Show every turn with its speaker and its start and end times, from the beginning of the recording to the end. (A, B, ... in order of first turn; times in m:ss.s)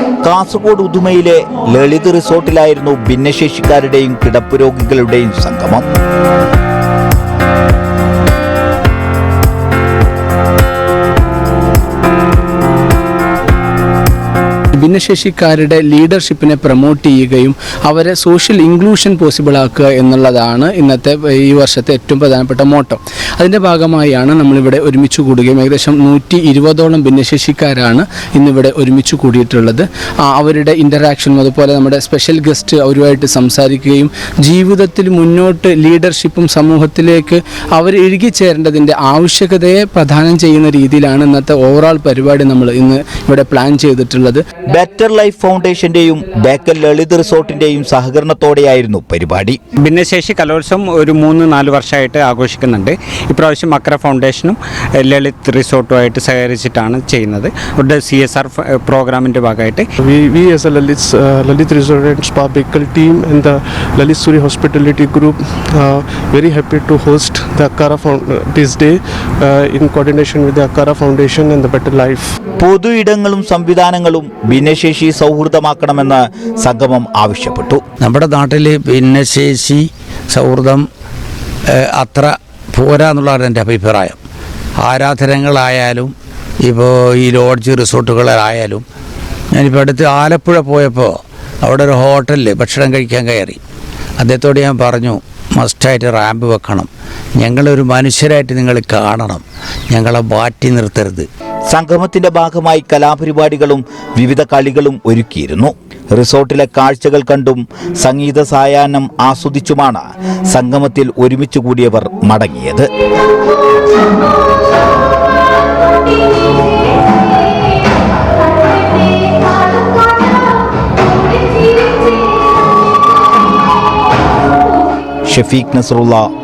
0:00.2-0:05.8 A
0:14.8-0:44.4 B
0:44.6-0:49.6 A
0:49.8-0:59.8 C
1:00.0-1:12.3 D
1:12.6-1:17.8 A
1:18.0-1:20.8 E
1:21.8-1:24.2 E
1:24.8-1:26.1 E
1:26.6-1:28.8 E
1:29.5-1:33.6 E
1:34.2-1:41.3 E
1:41.7-1:52.8 A
2:05.3-2:06.3 A